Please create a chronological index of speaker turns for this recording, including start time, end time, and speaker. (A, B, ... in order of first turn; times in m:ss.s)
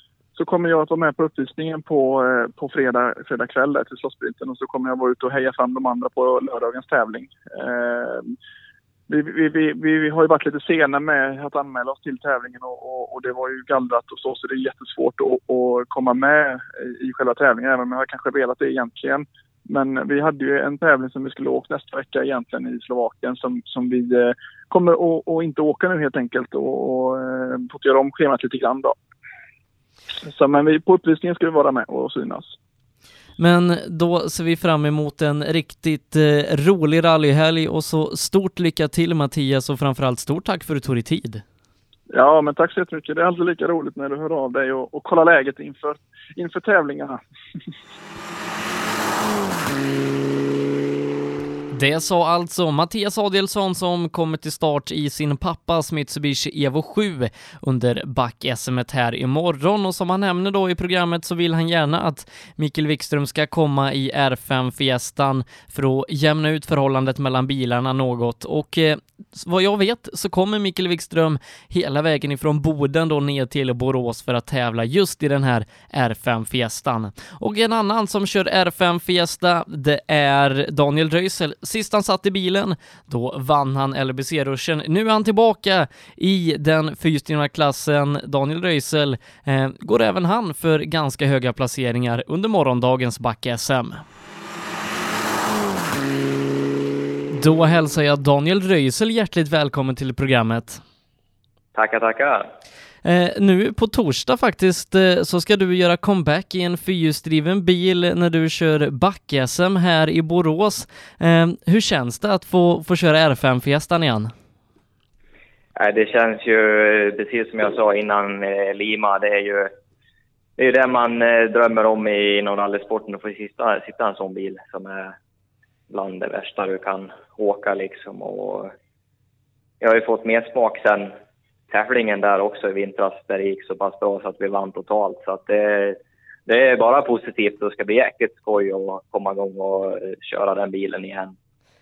0:00.4-0:08.3 A
0:09.1-0:29.0 A
0:30.2-0:32.6 A
0:33.4-0:41.4 B
0:42.1-0:47.2 A
0:51.7-1:34.0 B
1:37.3-1:40.8 B
1:41.8-1:42.5 C
1:43.0-1:54.3 B
1:55.8-1:59.7 C
2:00.6-2:05.2 C
2:05.9-2:08.7 C
2:09.8-2:11.1 C
2:11.7-2:21.4 C